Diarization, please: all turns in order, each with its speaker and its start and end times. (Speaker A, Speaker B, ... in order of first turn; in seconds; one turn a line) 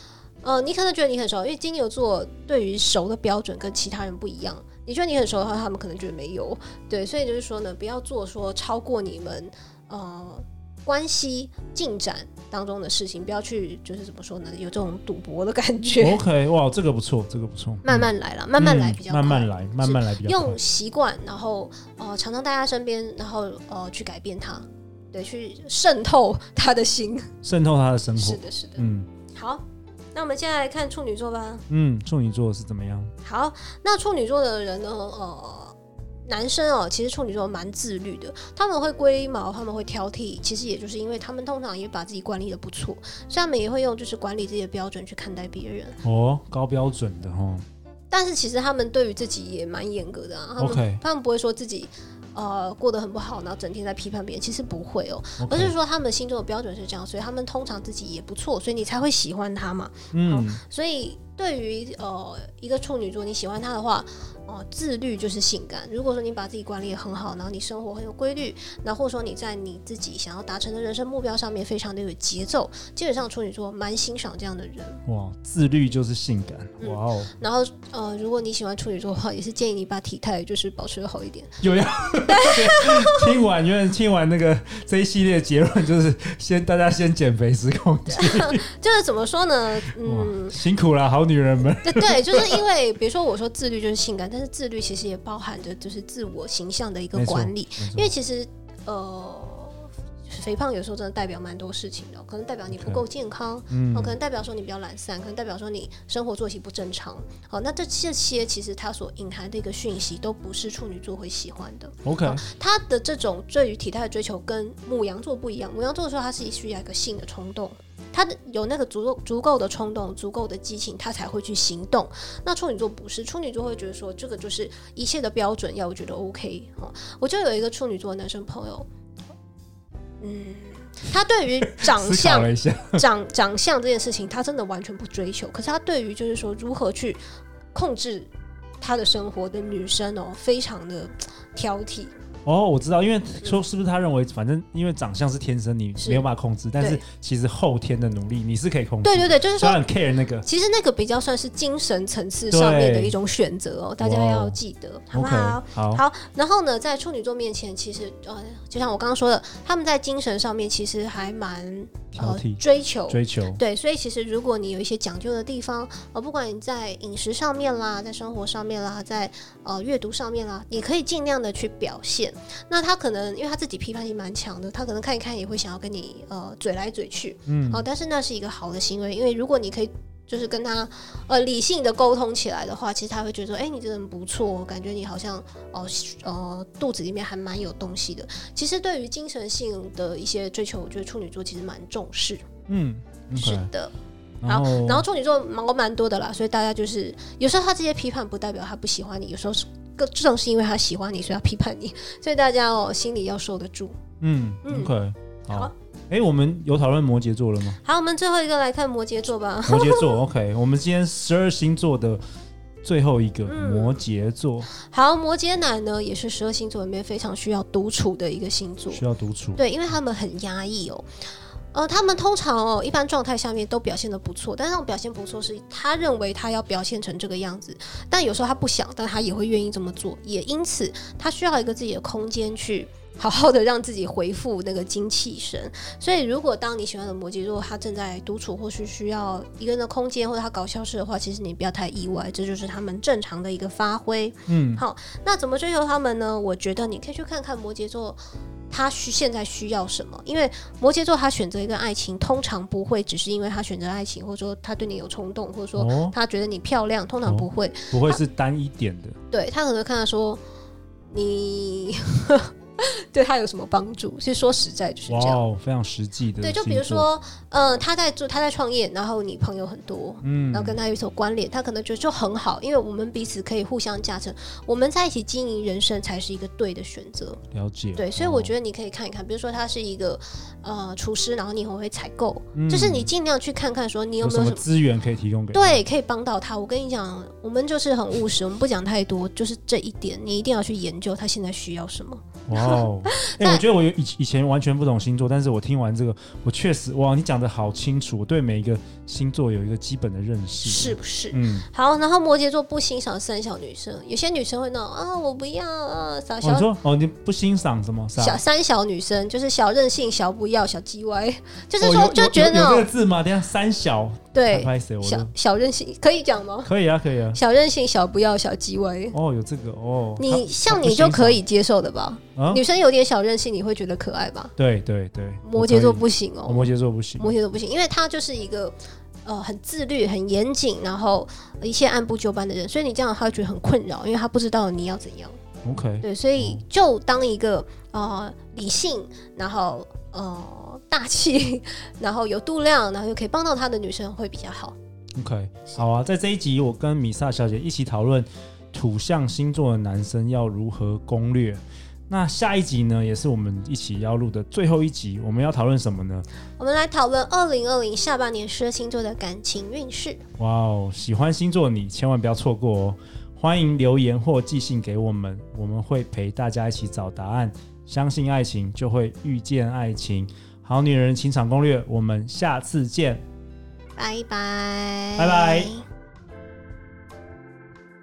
Speaker A: 0.4-16.2
Speaker B: 16.0-20.6
Speaker A: 17.8-27.3
Speaker B: 27.4-29.1
Speaker A: 28.2-31.6
Speaker B: 31.7-33.1
Speaker A: 33.2-35.8
Speaker A: 36.3-46.0
Speaker B: 46.0-47.6
Speaker A: 48.1-75.0
Speaker B: 50.6-51.0
Speaker B: 55.4-55.8
Speaker B: 60.1-60.6
Speaker B: 75.1-77.3
Speaker A: 76.8-81.6
Speaker B: 81.6-88.7
Speaker A: 82.3-83.3
Speaker A: 88.1-90.6
Speaker B: 90.0-92.6
Speaker A: 91.8-128.9
Speaker B: 97.1-98.1
Speaker B: 102.8-103.0
Speaker B: 103.7-104.2
Speaker B: 112.0-112.4
Speaker A: 130.2-137.2
Speaker B: 131.7-133.0
Speaker A: 137.7-138.3
Speaker A: 138.8-142.1
Speaker B: 142.4-150.5
Speaker A: 146.0-146.3
Speaker A: 146.8-147.0
Speaker A: 149.0-149.8
Speaker A: 150.4-192.4
Speaker B: 152.5-153.1
Speaker B: 154.0-154.6
Speaker B: 155.1-156.0
Speaker B: 162.1-163.6
Speaker B: 177.5-177.8
Speaker B: 192.7-193.7
Speaker A: 193.4-193.9
Speaker B: 194.4-195.0
Speaker A: 194.5-204.0
Speaker B: 204.2-207.8
Speaker A: 204.6-204.9
Speaker A: 207.8-210.2
Speaker B: 209.7-212.2
Speaker B: 212.8-214.7
Speaker A: 213.4-214.0
Speaker A: 214.7-219.0
Speaker B: 218.9-219.6
Speaker A: 219.6-221.1
Speaker A: 221.7-248.2
Speaker B: 244.5-244.8
Speaker A: 248.7-258.2
Speaker B: 255.8-256.2
Speaker B: 257.2-259.2
Speaker A: 259.3-260.4
Speaker A: 261.1-265.4
Speaker B: 265.1-267.1
Speaker A: 266.4-277.4
Speaker B: 270.2-270.8
Speaker B: 277.5-278.5
Speaker A: 278.0-284.7
Speaker B: 282.6-283.1
Speaker B: 284.2-285.8
Speaker A: 285.5-293.6
Speaker B: 292.5-301.7
Speaker A: 300.6-306.7
Speaker B: 306.4-308.4
Speaker A: 308.2-312.9
Speaker B: 311.8-315.3
Speaker A: 314.4-316.7
Speaker B: 316.6-317.4
Speaker A: 317.3-319.2
Speaker B: 319.1-321.4
Speaker A: 320.2-324.5
Speaker B: 322.4-322.6
Speaker B: 324.6-327.3
Speaker A: 325.4-335.4
Speaker B: 335.6-336.6
Speaker A: 336.0-344.8
Speaker B: 345.2-356.3
Speaker A: 356.6-360.2
Speaker B: 360.4-373.2
Speaker A: 374.0-375.8
Speaker B: 375.2-375.7